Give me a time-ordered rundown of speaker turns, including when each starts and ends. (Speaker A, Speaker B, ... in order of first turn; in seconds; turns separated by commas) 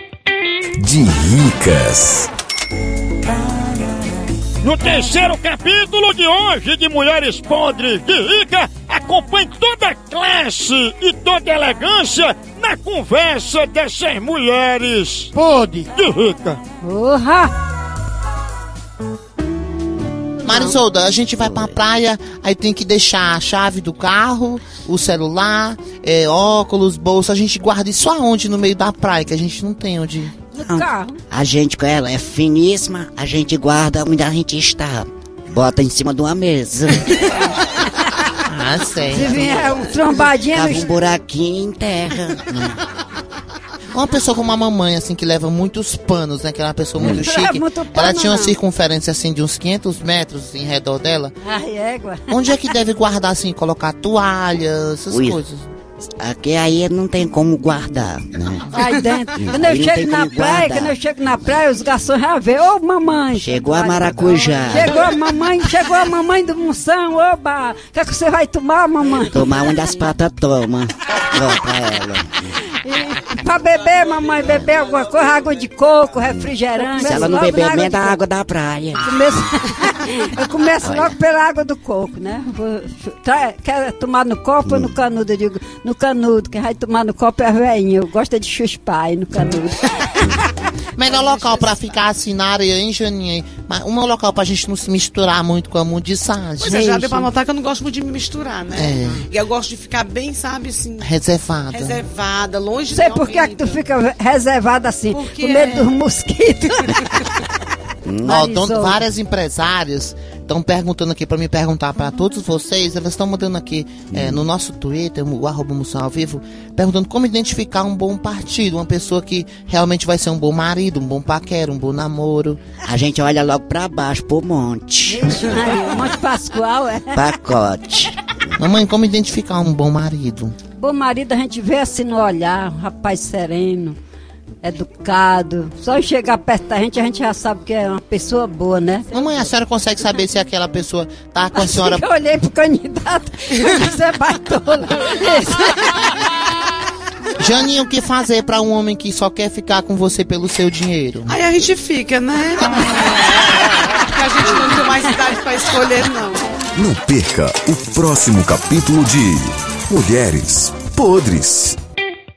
Speaker A: 0.8-2.3, Speaker B: 4.6-16.6, Speaker C: 16.8-17.5, Speaker D: 20.4-30.4, Speaker E: 21.4-21.8, Speaker C: 30.5-31.2, Speaker E: 30.6-37.5, Speaker D: 38.5-39.8, Speaker C: 39.1-40.9, Speaker E: 40.5-42.8, Speaker D: 43.9-51.3, Speaker C: 47.2-48.6, Speaker C: 51.4-52.3, Speaker D: 52.3-55.7, Speaker E: 55.1-55.4, Speaker E: 56.0-58.7, Speaker C: 58.7-69.5, Speaker E: 59.4-61.0, Speaker E: 63.4-64.9, Speaker E: 69.3-72.3, Speaker C: 72.8-78.2, Speaker E: 76.9-79.1, Speaker C: 79.0-89.8, Speaker E: 80.8-81.1, Speaker E: 84.7-84.9, Speaker D: 91.0-96.8, Speaker F: 91.1-91.8, Speaker F: 96.6-101.1, Speaker C: 96.8-97.2, Speaker D: 98.8-99.2, Speaker D: 101.0-102.0, Speaker F: 101.7-103.8, Speaker C: 102.9-107.1, Speaker F: 105.1-105.9, Speaker E: 108.0-108.4, Speaker C: 108.2-109.0, Speaker D: 108.3-122.6, Speaker E: 114.1-114.4, Speaker E: 122.8-125.5, Speaker C: 125.1-127.2, Speaker E: 127.1-128.2, Speaker D: 128.6-130.6, Speaker C: 130.8-134.0, Speaker C: 134.6-139.1, Speaker D: 139.1-142.1, Speaker C: 141.5-146.1, Speaker D: 147.4-151.4, Speaker F: 151.3-156.5, Speaker A: 156.8-161.8